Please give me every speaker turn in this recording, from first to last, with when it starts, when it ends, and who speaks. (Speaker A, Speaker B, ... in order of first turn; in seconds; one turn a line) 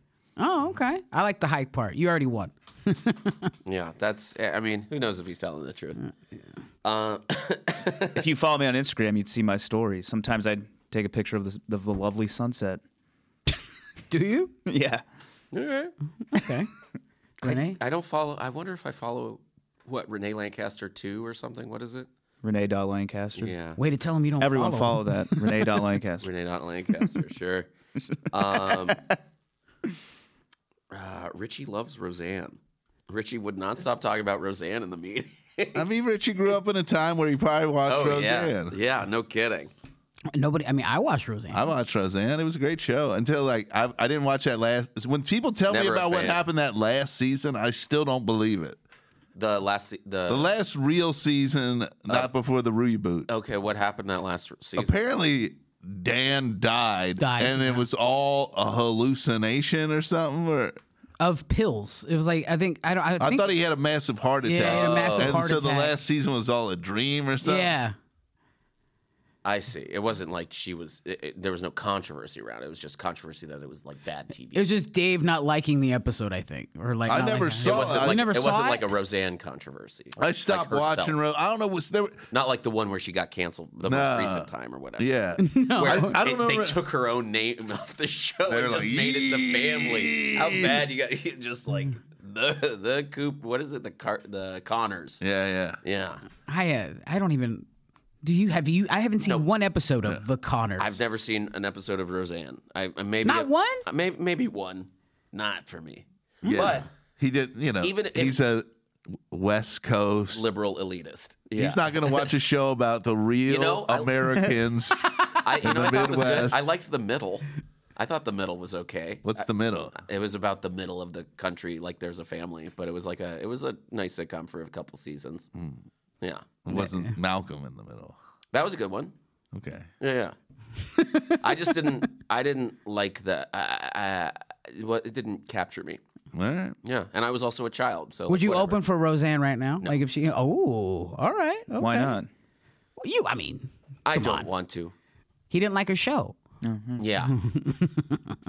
Speaker A: 0.4-3.5
Speaker B: 3.7-6.0
Speaker B: 6.8-8.2
Speaker C: 8.2-12.8
Speaker A: 14.1-14.5
Speaker C: 14.7-15.0
Speaker B: 15.5-15.9
Speaker A: 16.3-16.7
Speaker A: 17.4-17.8
Speaker B: 17.4-22.1
Speaker C: 22.4-23.5
Speaker B: 23.4-23.8
Speaker A: 23.8-25.8
Speaker C: 24.4-26.3
Speaker B: 26.2-27.7
Speaker B: 28.3-29.0
Speaker C: 28.5-29.1
Speaker B: 30.9-35.9
Speaker D: 35.7-38.8
Speaker B: 37.9-39.7
Speaker A: 40.3-41.6
Speaker D: 41.5-48.8
Speaker B: 45.7-46.4
Speaker B: 49.4-50.5
Speaker D: 50.3-53.3
Speaker B: 53.3-54.9
Speaker D: 54.8-60.8
Speaker A: 57.2-57.8
Speaker A: 61.2-63.5
Speaker D: 63.2-67.8
Speaker A: 64.5-66.0
Speaker B: 64.6-65.4
Speaker A: 67.4-68.0
Speaker B: 69.5-74.7
Speaker A: 74.5-78.9
Speaker D: 77.1-78.2
Speaker B: 77.6-81.2
Speaker D: 80.2-82.2
Speaker B: 82.3-85.1
Speaker D: 83.9-86.8
Speaker A: 85.4-86.2
Speaker B: 85.8-95.2
Speaker D: 88.5-90.8
Speaker D: 95.2-95.8
Speaker B: 95.8-96.2
Speaker A: 96.5-97.7
Speaker A: 98.2-101.0
Speaker B: 100.8-106.9
Speaker A: 103.2-103.8
Speaker D: 106.4-110.5
Speaker B: 107.8-108.4
Speaker B: 110.3-112.3
Speaker D: 111.5-116.7
Speaker B: 113.5-114.5
Speaker B: 115.4-125.5
Speaker D: 119.2-120.0
Speaker D: 125.5-125.8
Speaker B: 126.2-126.5
Speaker D: 126.6-128.2
Speaker A: 126.7-127.1
Speaker B: 128.5-129.1
Speaker D: 129.5-129.9
Speaker B: 130.0-130.3
Speaker A: 130.9-131.9
Speaker B: 131.4-136.0
Speaker D: 136.3-136.8
Speaker B: 136.8-138.8
Speaker A: 138.3-142.2
Speaker C: 141.7-142.3
Speaker A: 143.0-144.5
Speaker B: 144.1-144.9
Speaker A: 145.5-146.4
Speaker C: 146.6-147.0
Speaker B: 147.0-147.3
Speaker A: 147.3-148.2